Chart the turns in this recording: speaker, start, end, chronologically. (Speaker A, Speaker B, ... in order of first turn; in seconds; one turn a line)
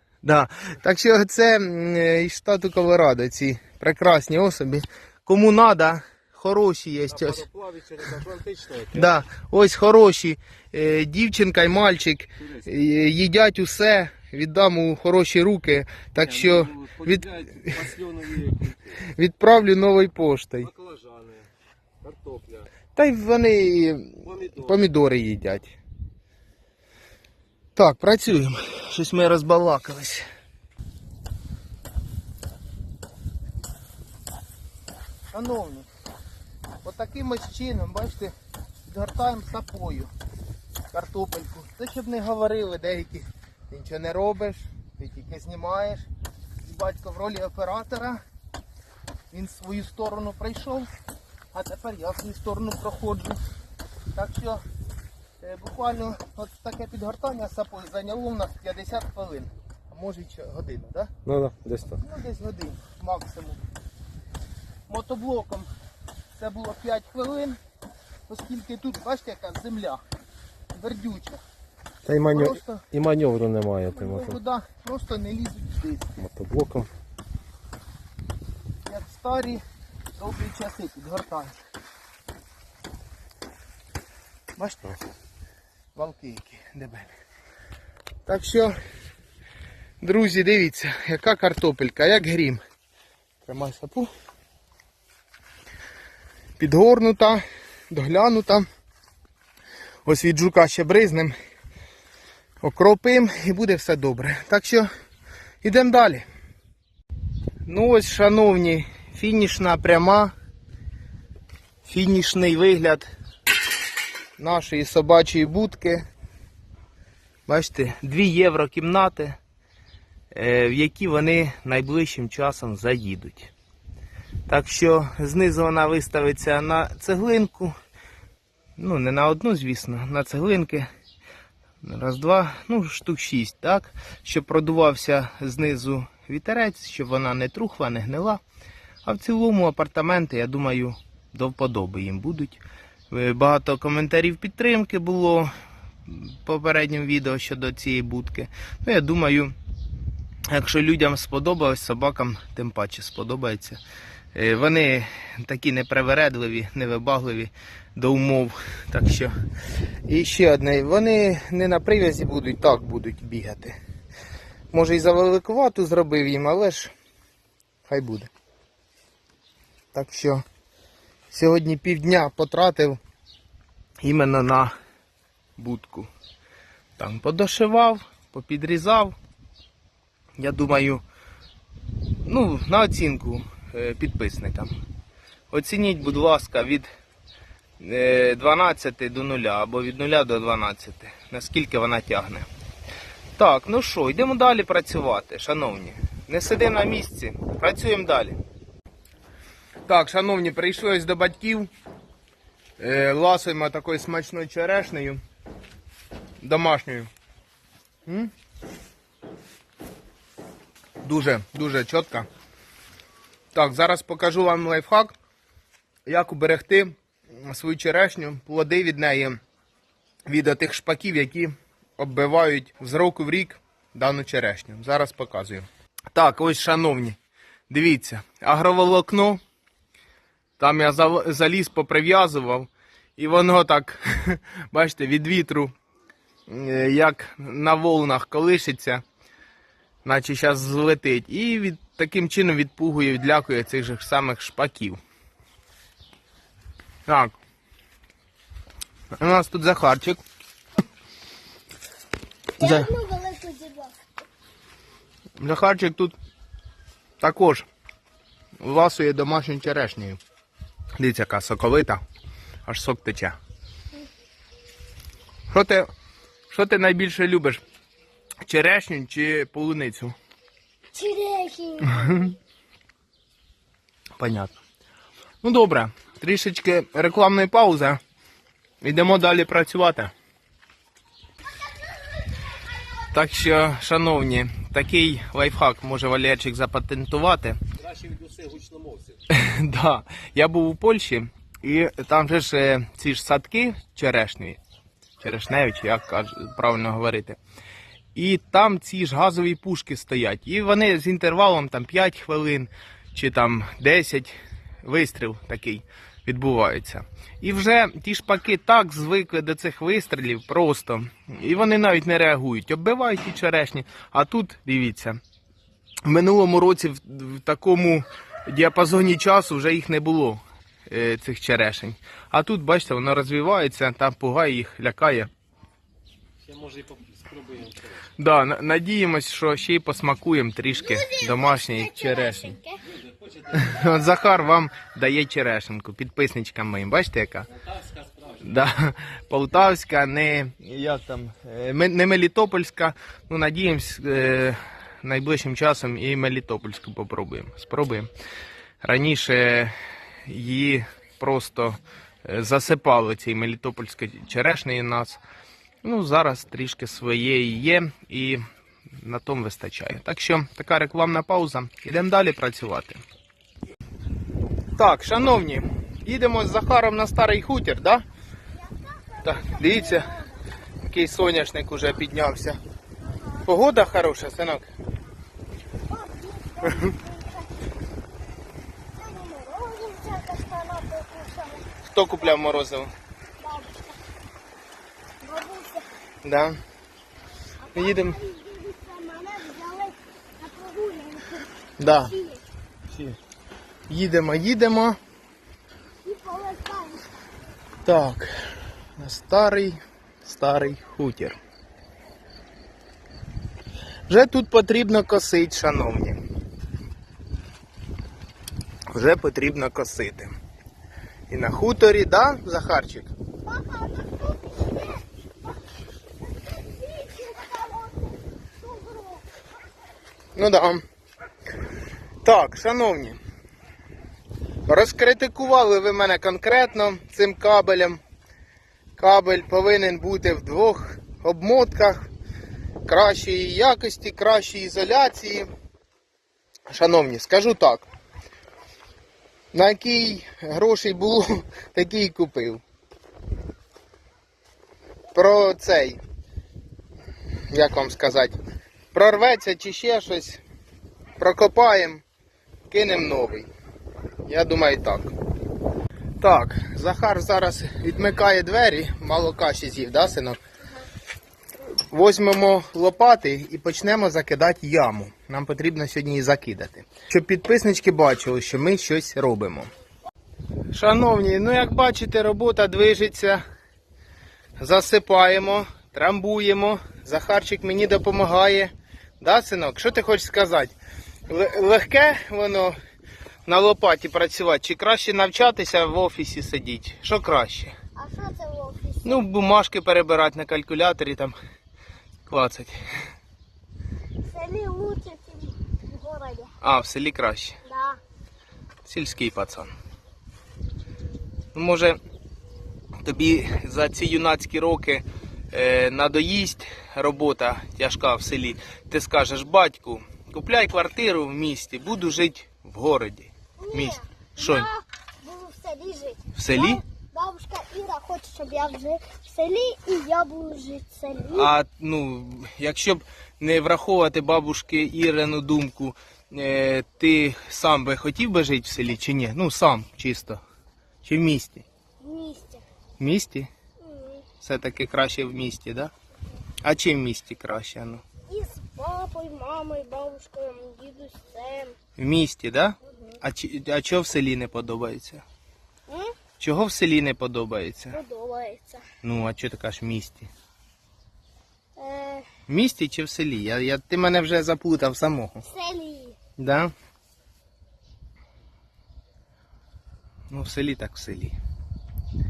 Speaker A: 0.2-7.4
Speaker B: 7.1-9.2
Speaker A: 8.9-17.8
Speaker B: 16.2-19.0
Speaker A: 19.1-20.7
Speaker B: 20.7-21.5
Speaker B: 22.0-22.7
Speaker A: 23.0-25.8
Speaker B: 24.3-24.6
Speaker A: 27.8-30.2
Speaker A: 35.3-35.9
Speaker A: 36.8-38.3
Speaker A: 38.9-40.1
Speaker A: 40.9-46.0
Speaker A: 46.6-48.2
Speaker A: 49.3-50.9
Speaker A: 51.5-53.4
Speaker A: 54.1-54.6
Speaker A: 55.4-61.1
Speaker B: 61.2-62.0
Speaker A: 61.9-63.6
Speaker A: 64.9-65.7
Speaker A: 66.3-67.6
Speaker A: 68.3-70.0
Speaker A: 70.7-71.4
Speaker B: 72.0-74.4
Speaker A: 72.3-72.8
Speaker A: 73.9-76.1
Speaker B: 76.2-76.9
Speaker A: 78.8-79.6
Speaker A: 80.2-81.5
Speaker A: 84.6-85.0
Speaker A: 86.0-87.1
Speaker A: 88.3-88.8
Speaker A: 90.0-92.6
Speaker A: 93.4-94.1
Speaker A: 96.6-98.7
Speaker A: 100.0-101.3
Speaker A: 102.6-104.9
Speaker A: 105.6-106.2
Speaker A: 107.7-110.3
Speaker A: 111.8-113.1
Speaker A: 114.4-116.0
Speaker A: 117.5-119.4
Speaker A: 120.3-123.5
Speaker A: 124.5-127.7
Speaker A: 128.8-130.9
Speaker A: 131.8-138.4
Speaker A: 139.0-145.5
Speaker A: 146.1-149.5
Speaker A: 150.5-153.8
Speaker A: 154.3-159.3
Speaker A: 160.1-163.8
Speaker A: 164.7-166.9
Speaker A: 167.9-168.3
Speaker A: 169.9-170.4
Speaker A: 171.3-173.0
Speaker A: 174.0-174.7
Speaker A: 175.6-176.1
Speaker A: 177.0-179.2
Speaker A: 180.4-181.0
Speaker A: 182.2-184.8
Speaker A: 185.5-186.9
Speaker A: 187.8-192.5
Speaker A: 193.3-198.4
Speaker A: 199.9-201.7
Speaker A: 202.8-205.2
Speaker A: 206.4-207.1
Speaker A: 208.1-208.3
Speaker A: 211.0-212.3
Speaker A: 213.5-215.1
Speaker A: 216.1-219.4
Speaker A: 220.3-227.2
Speaker A: 227.7-229.4
Speaker A: 230.6-235.7
Speaker A: 236.5-239.0
Speaker A: 240.0-245.0
Speaker A: 247.1-247.3
Speaker A: 249.2-250.2
Speaker A: 252.6-252.9
Speaker C: 252.6-253.9
Speaker A: 255.4-256.1
Speaker A: 257.2-257.6
Speaker A: 258.6-260.2
Speaker A: 261.0-262.0
Speaker A: 262.6-263.4
Speaker A: 265.5-265.9
Speaker A: 266.5-267.6
Speaker A: 268.4-270.1
Speaker C: 270.9-272.3
Speaker A: 271.9-272.3
Speaker A: 274.2-274.5
Speaker A: 275.4-278.0
Speaker A: 278.8-280.1
Speaker A: 283.1-287.6
Speaker B: 287.8-289.2
Speaker A: 289.3-294.6
Speaker A: 295.2-297.4
Speaker A: 298.1-315.2
Speaker A: 316.0-325.3
Speaker B: 326.4-328.0
Speaker A: 328.2-332.6
Speaker C: 330.8-332.8
Speaker B: 333.4-333.7
Speaker A: 333.5-337.5
Speaker A: 338.3-348.1
Speaker A: 348.8-349.7
Speaker A: 350.2-355.2
Speaker A: 355.8-358.4
Speaker A: 359.0-363.0
Speaker A: 364.8-368.0
Speaker C: 368.6-370.4
Speaker A: 369.2-370.1
Speaker A: 370.8-372.6
Speaker C: 373.0-373.5
Speaker A: 373.4-374.7
Speaker C: 375.9-377.6
Speaker C: 378.9-382.6
Speaker A: 381.9-382.9
Speaker C: 383.4-384.0
Speaker C: 385.2-385.9
Speaker A: 386.2-386.6
Speaker C: 387.6-392.4
Speaker A: 387.8-388.1
Speaker A: 391.8-392.1
Speaker A: 393.9-395.0
Speaker C: 396.0-397.2
Speaker A: 397.9-398.3
Speaker A: 399.0-401.4
Speaker A: 404.1-406.2
Speaker A: 408.9-410.3
Speaker A: 411.3-413.1
Speaker C: 413.4-415.6
Speaker C: 416.2-419.2
Speaker A: 420.4-420.8
Speaker A: 422.2-423.2
Speaker A: 424.6-428.0
Speaker A: 429.0-432.1
Speaker A: 432.9-435.5
Speaker A: 436.7-437.9
Speaker A: 439.5-442.6
Speaker A: 445.1-446.0
Speaker A: 447.5-448.4
Speaker A: 448.9-450.4
Speaker A: 451.2-452.0
Speaker A: 452.7-453.5
Speaker A: 454.2-455.1
Speaker A: 456.2-460.4
Speaker A: 461.9-469.7
Speaker A: 470.7-473.4
Speaker A: 474.6-480.8
Speaker A: 481.3-482.8
Speaker A: 483.4-487.7
Speaker C: 487.9-489.2
Speaker A: 489.0-491.4
Speaker A: 492.2-492.8
Speaker C: 494.2-496.5
Speaker A: 496.6-497.6
Speaker C: 497.6-498.0
Speaker A: 498.9-499.7
Speaker A: 501.5-502.0
Speaker A: 503.0-514.7
Speaker C: 513.6-521.5
Speaker A: 516.4-516.8
Speaker A: 521.3-530.4
Speaker A: 531.0-531.6
Speaker C: 532.0-532.6
Speaker A: 533.0-533.5
Speaker C: 533.8-534.3
Speaker A: 534.4-535.9
Speaker A: 536.6-538.0
Speaker C: 538.3-541.8
Speaker A: 542.0-545.2
Speaker C: 542.9-543.2
Speaker C: 545.9-546.2
Speaker A: 546.4-548.0
Speaker C: 547.9-548.8
Speaker A: 549.0-550.3
Speaker C: 551.8-552.3
Speaker A: 552.5-555.4
Speaker C: 555.5-556.2
Speaker A: 556.4-556.7
Speaker A: 560.3-561.4